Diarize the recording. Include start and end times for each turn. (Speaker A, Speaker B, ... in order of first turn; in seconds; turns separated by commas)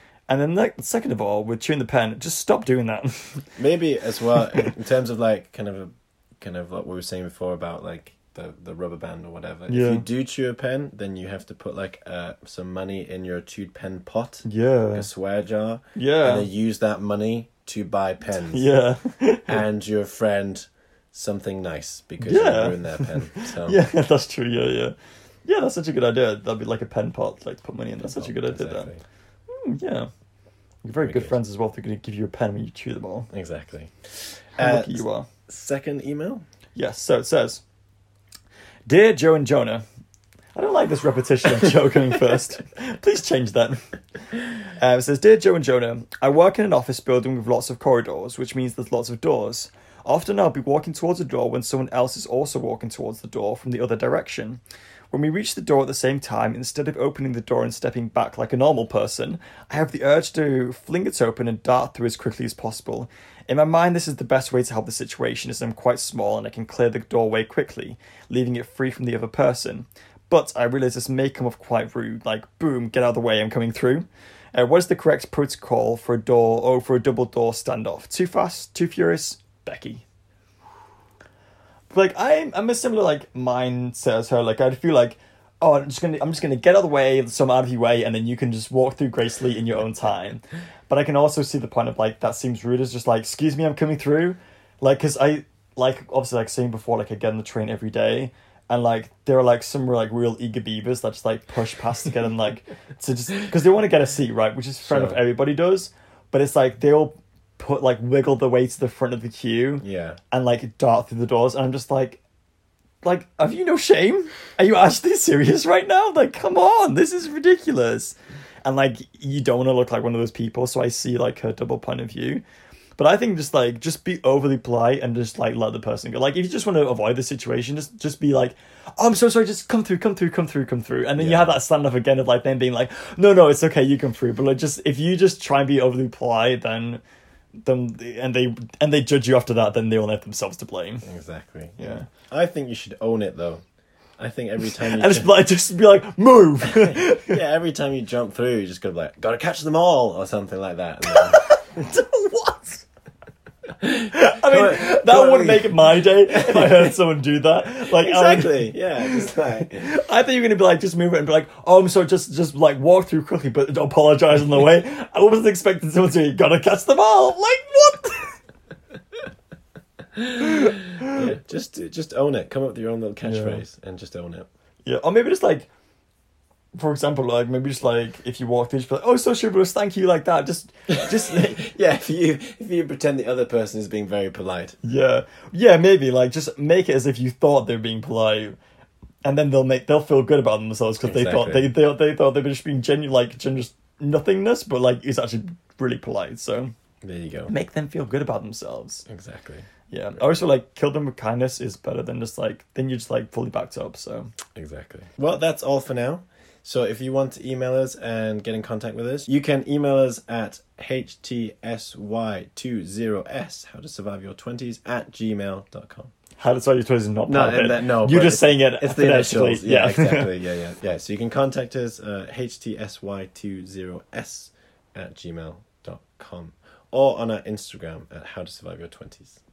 Speaker A: 0.3-3.6, Speaker B: 3.6-18.6, Speaker A: 9.7-10.0, Speaker A: 14.4-15.1, Speaker A: 16.0-16.5, Speaker A: 18.5-19.6, Speaker B: 19.5-23.8, Speaker A: 22.2-24.9, Speaker A: 25.4-28.9, Speaker B: 28.0-29.0, Speaker A: 29.5-30.1, Speaker A: 30.8-33.3, Speaker B: 31.0-31.3, Speaker B: 33.3-36.4, Speaker A: 34.6-35.3, Speaker A: 36.8-37.6, Speaker A: 38.9-39.8, Speaker A: 40.5-43.8, Speaker A: 44.8-54.6, Speaker A: 55.1-80.0, Speaker A: 81.9-112.2, Speaker B: 104.8-105.2, Speaker B: 109.8-110.2, Speaker A: 113.0-122.4, Speaker A: 123.0-137.0, Speaker B: 131.2-131.6, Speaker A: 137.6-141.1, Speaker B: 141.0-143.6, Speaker A: 141.8-142.1, Speaker B: 144.2-145.3, Speaker A: 144.8-147.4, Speaker B: 146.6-151.4, Speaker A: 151.0-152.8, Speaker B: 153.8-156.9, Speaker A: 154.1-168.4, Speaker B: 157.8-159.9, Speaker B: 170.1-174.5, Speaker A: 170.4-171.2, Speaker A: 173.2-173.6, Speaker A: 174.8-175.7, Speaker A: 176.7-181.7, Speaker B: 180.9-184.8, Speaker A: 184.8-188.6, Speaker A: 189.2-196.7, Speaker B: 191.0-191.7, Speaker B: 197.0-197.5, Speaker A: 197.5-199.1, Speaker B: 199.1-199.7, Speaker A: 199.9-204.3, Speaker B: 204.5-216.1, Speaker A: 216.4-220.3, Speaker B: 217.3-229.4